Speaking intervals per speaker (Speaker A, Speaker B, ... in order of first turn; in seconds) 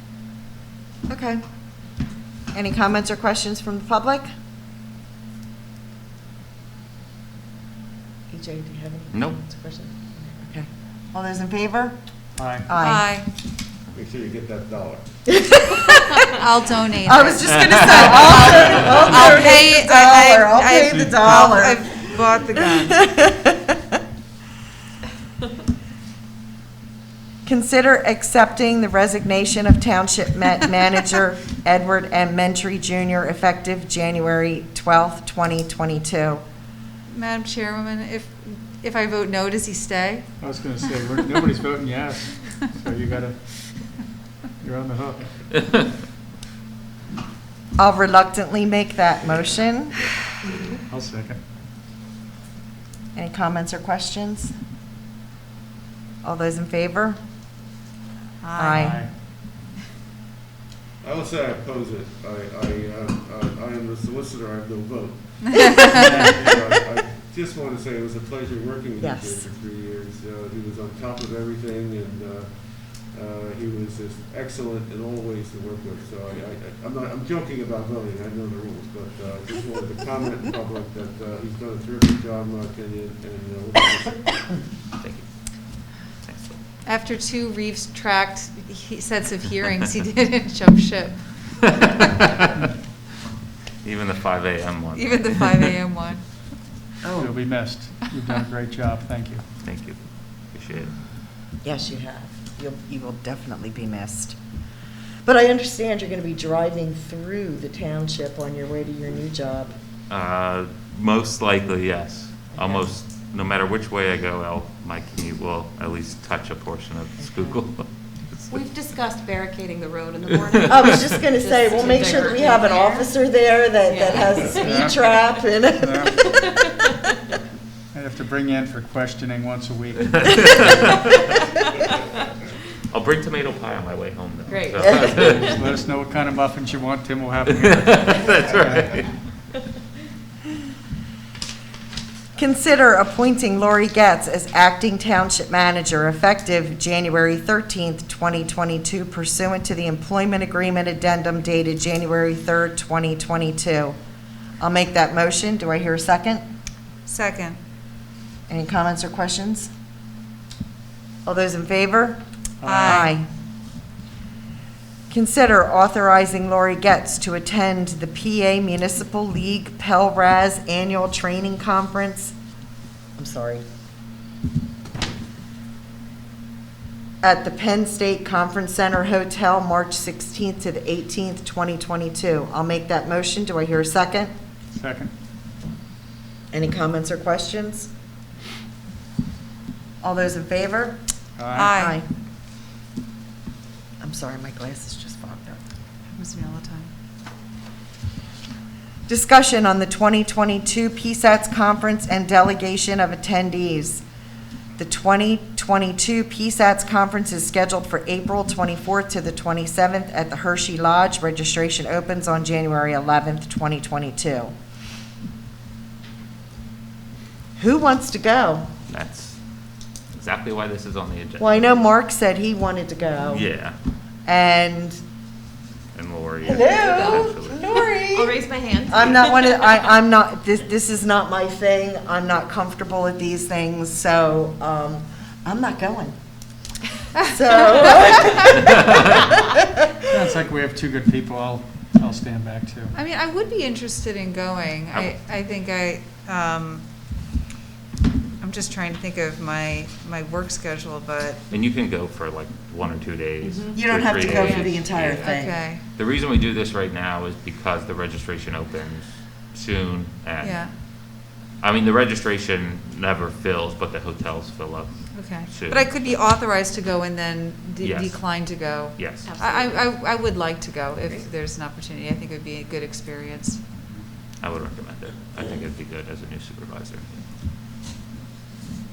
Speaker A: 1.1-1.4, 2.5-4.3, 8.3-11.9, 12.7-13.1, 15.3-16.2, 17.0-23.5, 27.4-36.4, 47.8-50.0, 53.1-54.5, 56.2-57.2, 58.5-59.0, 69.0-69.5, 97.0-97.3, 101.6-104.4, 105.2-109.7, 120.7-126.7, 134.8-135.1, 142.3-153.9, 154.6-156.4, 158.5-159.7, 161.2-162.2, 162.8-163.2, 165.1-172.3, 173.2-173.6, 177.2-184.3, 186.5-187.9, 190.0-191.0, 191.6-192.0, 194.0-195.6, 199.1-204.0, 204.8-214.5, 217.6-218.7, 221.4-223.5, 224.2-225.0, 226.4-236.1, 237.3-239.3, 253.7-255.6
Speaker B: 9.1-9.4, 17.6-18.7, 50.0-50.8, 85.0-85.3, 86.2-86.6, 93.8-95.7, 99.6-100.9, 110.1-118.5, 130.2-131.0, 132.9-135.6, 137.5-139.2, 218.9-219.4, 220.1-221.6, 223.3-223.8, 225.9-227.7, 244.9-245.2, 251.5-266.2, 267.8-269.4, 274.4-277.1
Speaker C: 12.4-12.7, 20.9-21.4, 40.4-43.9, 44.6-45.3, 50.9-51.4, 58.7-59.1, 65.9-66.5, 97.2-99.4, 124.6-125.0, 125.8-126.2, 127.9-130.5, 135.2-138.9, 162.6-163.1, 184.7-185.1, 191.4-191.7, 240.1-242.9
Speaker D: 12.7-13.3, 16.4-23.0, 37.1-40.3, 58.4-59.0, 65.6-66.0, 86.8-92.1, 94.9-96.2, 157.1-157.6, 162.6-163.1, 191.5-192.0, 196.1-196.9, 242.9-246.8, 248.4-251.4, 255.1-255.8, 260.4-260.7, 265.1-273.6
Speaker E: 13.9-15.2, 61.0-84.6
Speaker F: 118.5-123.1, 123.8-125.2, 126.3-126.9, 134.5-135.6, 226.6-229.7, 253.4-254.7, 269.1-269.9